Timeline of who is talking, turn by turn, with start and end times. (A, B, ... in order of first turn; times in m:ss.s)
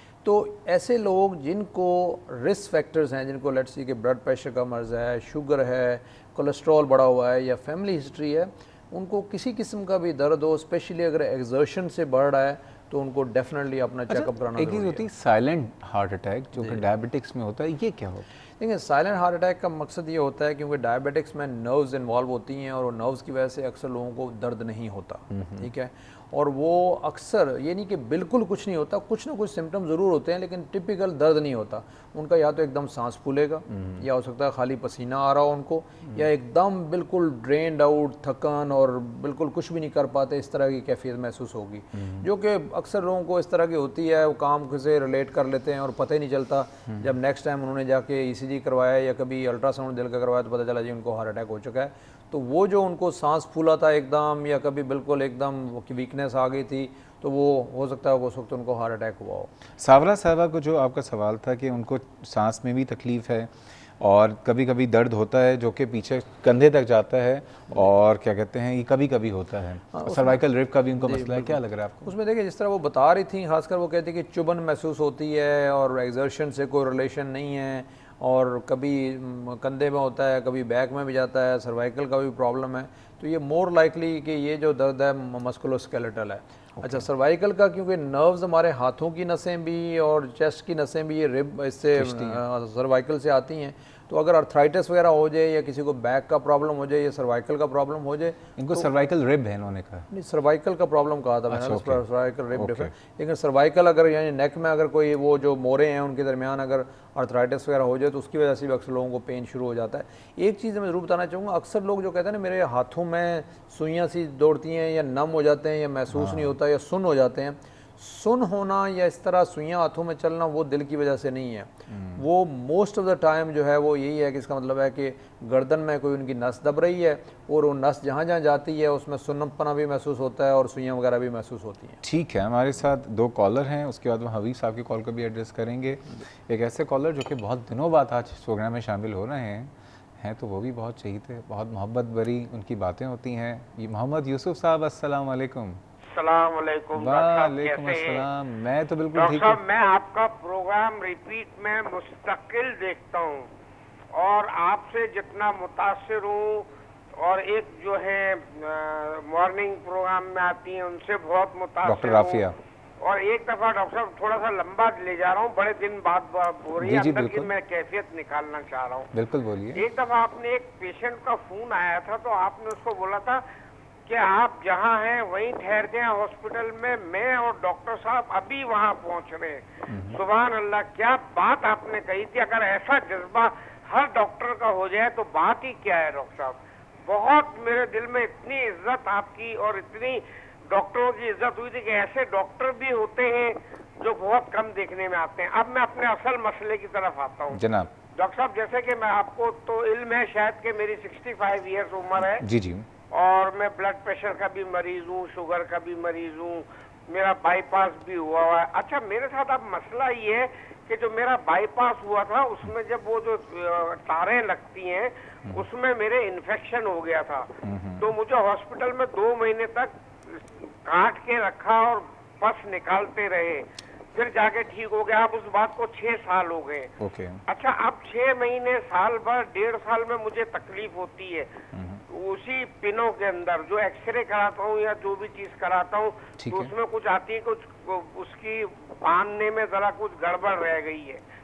0:00.2-0:15.0 A
0:14.1-0:18.3 B
0:16.6-0:16.8 A
0:18.6-0:59.5 A
0:25.3-0:25.7 B
0:33.7-0:34.0 B
0:42.0-0:42.2 B
0:59.8-1:12.1 B
1:09.9-1:10.4 A
1:11.0-1:38.9 A
1:26.8-1:27.0 B
1:31.9-1:32.4 B
1:38.6-1:40.1 B
1:40.1-2:12.0 A
1:41.5-1:42.9 B
1:56.1-1:56.6 B
2:01.9-2:02.2 B
2:12.0-2:25.8 B
2:26.1-2:28.2 C
2:27.0-2:29.6 B
2:29.1-2:33.5 C
2:34.1-2:42.5 C
2:41.8-2:42.6 B
2:43.0-2:49.1 C
2:46.8-2:47.5 B
2:49.1-2:49.8 B
2:49.7-2:53.4 C
2:54.1-3:17.6 C
2:59.9-3:00.2 B
3:17.5-3:17.9 B
3:18.1-3:22.4 C
3:22.3-3:22.9 B
3:23.1-3:37.5 C
3:37.6-3:38.1 B
3:38.0-3:46.9 C
3:47.0-3:47.4 B
3:47.5-3:51.5 C
3:51.7-3:52.0 B
3:52.1-4:01.2 C
3:56.4-3:56.7 B